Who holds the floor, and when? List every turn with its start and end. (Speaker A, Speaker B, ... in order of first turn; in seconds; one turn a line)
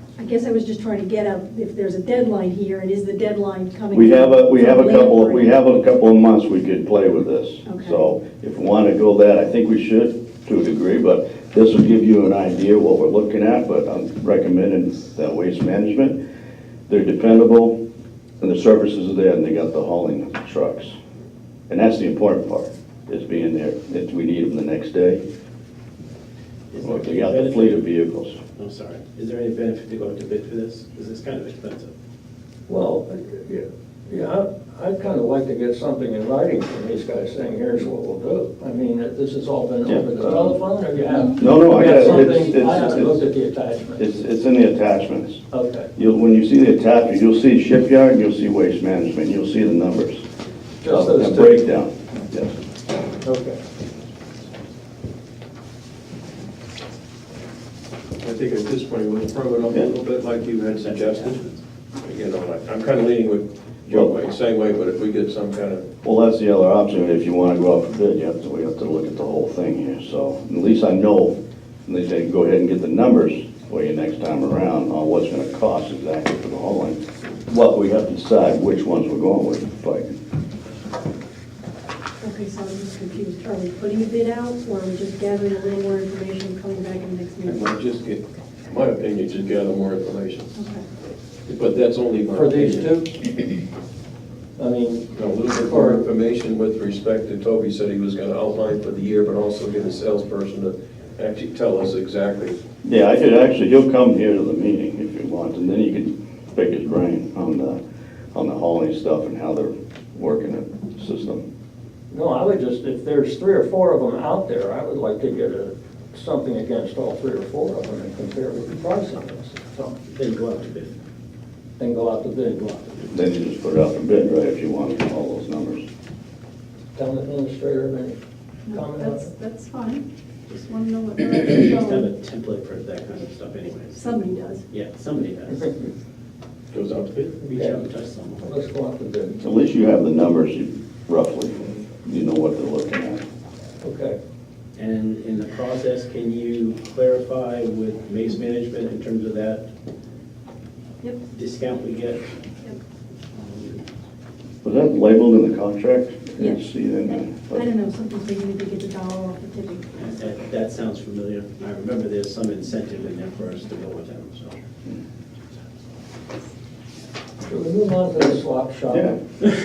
Speaker A: 0.2-5.5
Speaker B: 3.9-16.2
Speaker A: 7.7-8.0
Speaker B: 16.9-17.8
Speaker B: 18.4-20.9
Speaker B: 21.7-25.2
Speaker C: 26.7-27.9
Speaker B: 26.8-28.4
Speaker C: 28.6-31.9
Speaker D: 32.7-44.2
Speaker B: 39.9-40.5
Speaker B: 41.4-43.2
Speaker B: 44.0-45.4
Speaker D: 45.5-45.9
Speaker B: 46.0-50.2
Speaker D: 50.8-51.7
Speaker B: 50.9-52.5
Speaker D: 53.2-53.6
Speaker E: 58.2-61.4
Speaker C: 60.8-61.6
Speaker E: 62.0-65.8
Speaker B: 66.0-80.2
Speaker A: 82.2-87.7
Speaker E: 87.4-90.5
Speaker A: 90.5-90.8
Speaker E: 91.5-92.9
Speaker D: 92.3-93.2
Speaker D: 94.6-96.0
Speaker E: 95.1-102.5
Speaker B: 102.8-107.8
Speaker B: 108.3-111.4
Speaker D: 112.1-119.9
Speaker C: 120.1-120.9
Speaker D: 121.8-122.6
Speaker C: 122.4-123.0
Speaker B: 123.1-125.8
Speaker D: 126.9-128.2
Speaker A: 128.7-132.1
Speaker D: 128.7-129.3
Speaker C: 131.2-135.7
Speaker A: 133.9-134.7
Speaker D: 135.5-135.9
Speaker E: 136.7-137.4
Speaker C: 137.3-138.6
Speaker D: 137.4-137.8
Speaker D: 138.4-139.4
Speaker B: 139.4-143.2
Speaker D: 143.8-144.2
Speaker C: 144.8-149.7
Speaker C: 151.3-152.2
Speaker C: 153.3-153.8
Speaker B: 154.6-157.7
Speaker A: 156.4-160.0
Speaker C: 159.9-164.6
Speaker D: 167.4-169.2
Speaker B: 168.9-169.2